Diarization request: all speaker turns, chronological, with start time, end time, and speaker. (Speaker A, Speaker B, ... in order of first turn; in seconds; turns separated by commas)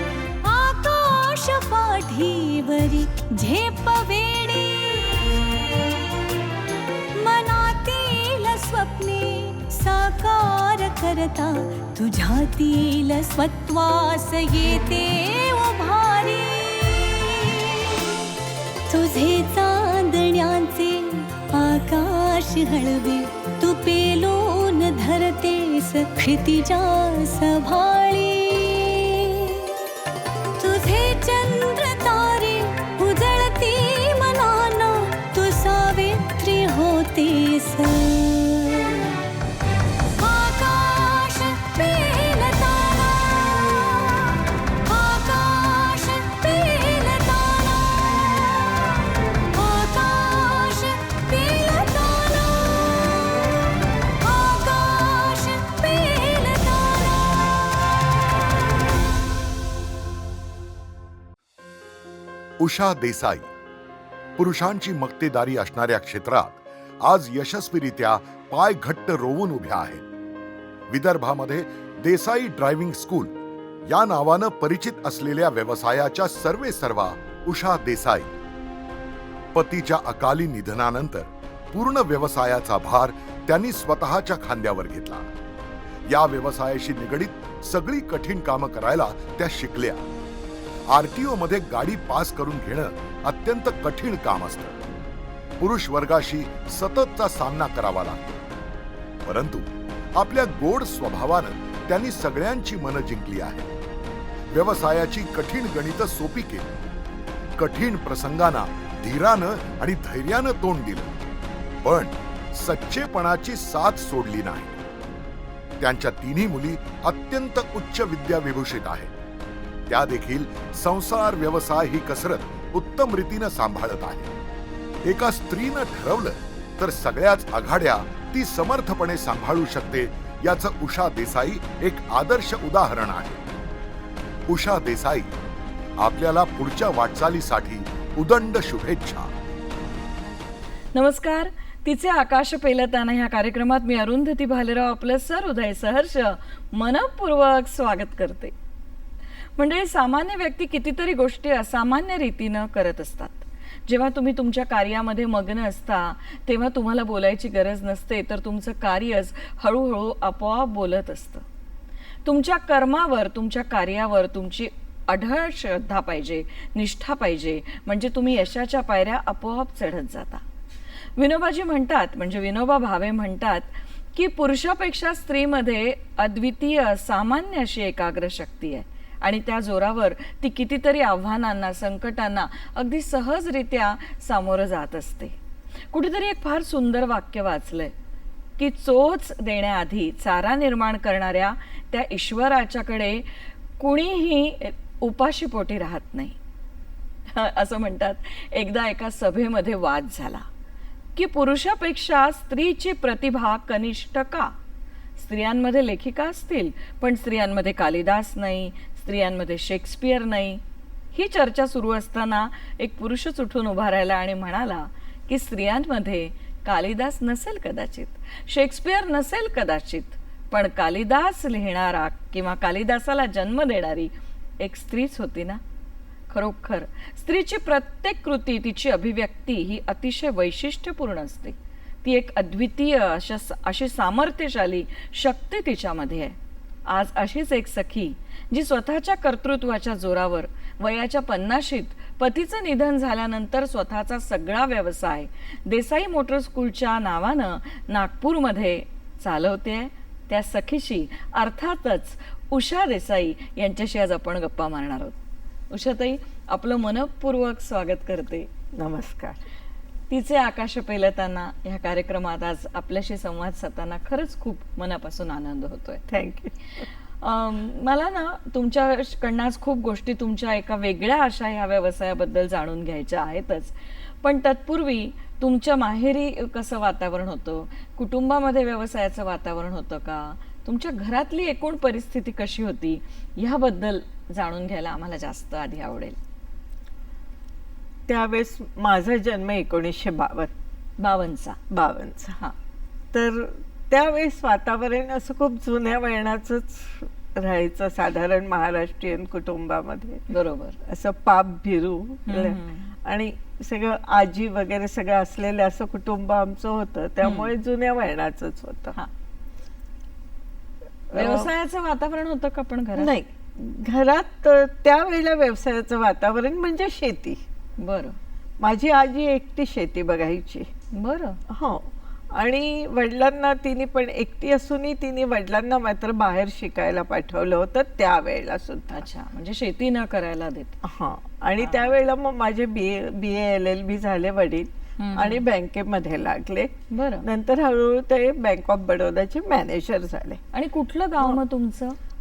Speaker A: 0.4-6.1, Speaker A: 7.2-18.0, Speaker A: 18.9-29.7, Speaker A: 30.6-39.1, Speaker A: 40.2-49.0, Speaker A: 49.5-53.4, Speaker A: 54.2-57.5, Speaker B: 62.6-63.5, Speaker B: 64.4-70.0, Speaker B: 70.9-73.3, Speaker B: 73.9-78.3, Speaker B: 79.5-85.3, Speaker B: 86.1-90.0, Speaker B: 90.9-94.8, Speaker B: 95.6-98.4, Speaker B: 99.2-103.7, Speaker B: 104.5-106.8, Speaker B: 107.6-111.1, Speaker B: 111.8-114.8, Speaker B: 115.8-119.1, Speaker B: 119.9-124.3, Speaker B: 125.0-133.4, Speaker B: 134.5-135.3, Speaker B: 136.0-139.3, Speaker C: 140.9-148.5, Speaker C: 149.6-161.4, Speaker C: 162.2-170.4, Speaker C: 171.2-185.3, Speaker C: 185.9-187.9, Speaker C: 188.6-196.4, Speaker C: 197.3-200.5, Speaker C: 201.2-204.5, Speaker C: 205.2-210.6, Speaker C: 211.1-225.6, Speaker C: 226.3-255.2, Speaker C: 255.7-258.5, Speaker D: 258.8-259.4, Speaker C: 260.1-266.1, Speaker D: 266.1-266.9, Speaker C: 266.8-286.2, Speaker D: 288.1-290.5, Speaker C: 291.0-291.6, Speaker D: 291.7-292.4, Speaker D: 293.1-300.3, Speaker C: 300.3-300.8, Speaker D: 300.8-309.0, Speaker C: 302.3-302.9, Speaker C: 307.2-307.5, Speaker D: 311.1-311.5, Speaker C: 311.1-313.1, Speaker D: 313.0-317.4, Speaker C: 317.8-318.2, Speaker D: 318.6-320.7, Speaker C: 320.9-321.4, Speaker D: 321.5-329.1, Speaker C: 328.9-330.8, Speaker D: 330.8-340.4, Speaker C: 331.6-332.0, Speaker C: 335.0-335.4, Speaker C: 336.9-337.3, Speaker C: 340.5-342.0